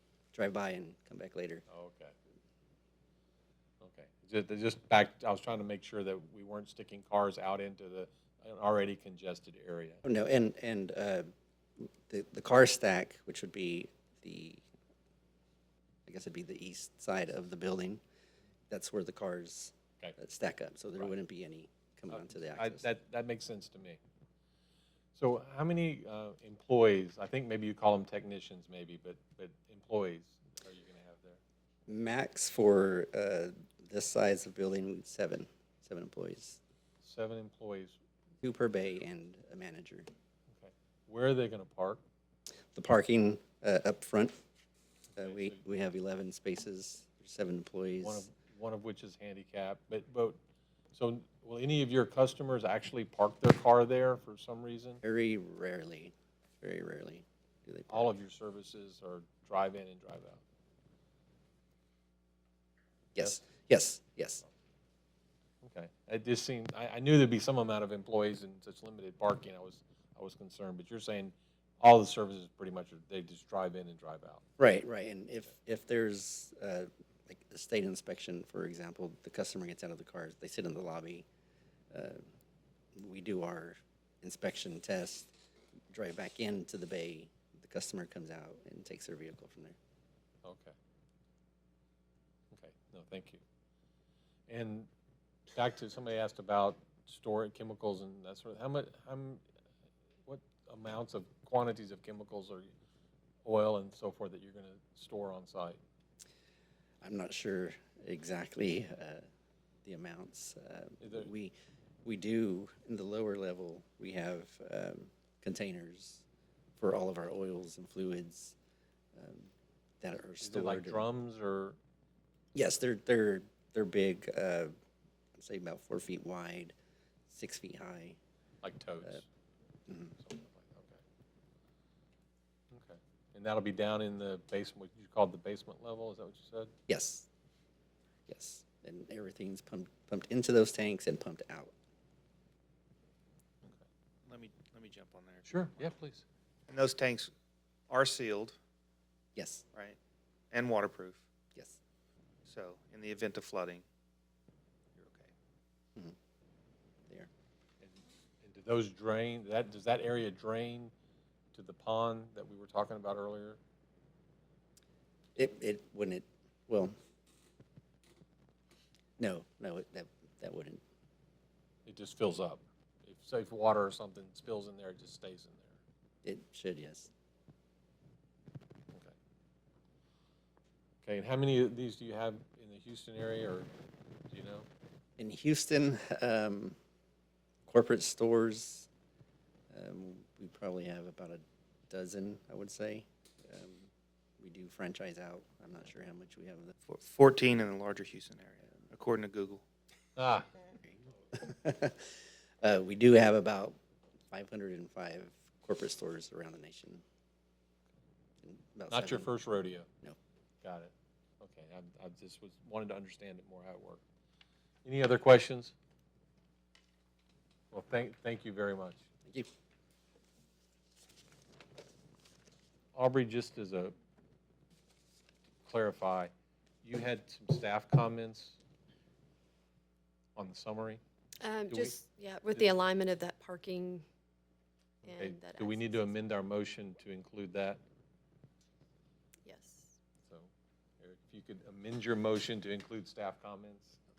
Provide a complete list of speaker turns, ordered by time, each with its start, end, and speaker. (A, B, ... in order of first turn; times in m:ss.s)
0:00.3-0:01.6 A
0:01.7-0:02.1 B
0:03.8-0:10.0 B
0:10.0-0:11.3 A
0:11.8-0:14.6 A
0:16.1-0:18.0 A
0:18.7-0:22.9 A
0:22.1-0:24.0 B
0:25.2-0:31.4 B
0:31.9-0:36.6 A
0:37.0-0:38.0 B
0:38.4-0:40.1 A
0:40.5-0:42.0 B
0:42.7-0:44.4 A
0:45.2-0:45.6 B
0:45.2-0:48.3 A
0:48.0-0:50.4 B
0:50.9-0:55.0 B
0:55.0-0:58.1 A
0:57.9-1:00.4 B
1:03.2-1:04.4 A
1:03.2-1:03.4 B
1:05.6-1:14.4 B
1:14.6-1:21.3 A
1:21.9-1:22.3 A
1:23.0-1:25.3 A
1:25.9-1:29.8 A
1:30.4-1:30.8 B
1:32.5-1:33.4 B
1:34.5-1:34.9 B
1:35.5-1:39.4 B
1:40.2-1:42.7 B
1:43.4-1:45.8 B
1:47.0-1:49.3 A
1:49.8-1:51.5 A
1:51.0-1:51.3 B
1:52.0-1:56.2 A
1:56.8-1:58.6 A
1:59.2-1:59.5 A
2:00.0-2:01.0 A
2:00.4-2:01.8 B
2:02.6-2:04.7 A
2:05.4-2:06.7 A
2:07.3-2:08.2 A
2:08.6-2:09.2 B
2:09.9-2:10.2 A
2:10.2-2:11.0 B
2:12.7-2:16.7 B
2:16.9-2:17.3 A
2:18.3-2:21.7 A
2:24.3-2:25.9 C
2:25.5-2:26.2 B
2:26.7-2:27.3 C
2:27.9-2:28.6 C
2:29.4-2:29.6 A
2:29.7-2:30.0 C
2:30.5-2:31.2 C
2:32.5-2:33.8 C
2:35.0-2:35.3 C
2:37.8-2:40.9 B
2:41.5-2:43.6 B
2:45.4-2:46.9 A
2:49.2-2:50.8 A
2:51.9-2:55.8 B
2:56.2-2:57.1 A
3:01.0-3:03.7 B
3:04.3-3:04.7 B
3:05.2-3:06.8 A
3:07.7-3:08.9 A
3:09.7-3:16.7 A
3:16.9-3:19.6 C
3:20.2-3:20.5 B
3:20.8-3:23.8 A
3:24.3-3:27.0 A
3:28.4-3:29.4 A
3:28.9-3:29.9 B
3:30.6-3:34.0 B
3:34.8-3:35.7 B
3:37.7-3:39.0 B
3:43.0-3:43.9 B
3:45.7-3:46.3 B
3:46.8-3:48.6 B
3:50.4-3:51.0 B
3:51.4-3:54.0 D
3:51.7-3:52.0 B
3:55.0-3:57.8 B
3:55.0-3:56.1 D
3:59.4-3:59.9 D
4:00.2-4:04.0 B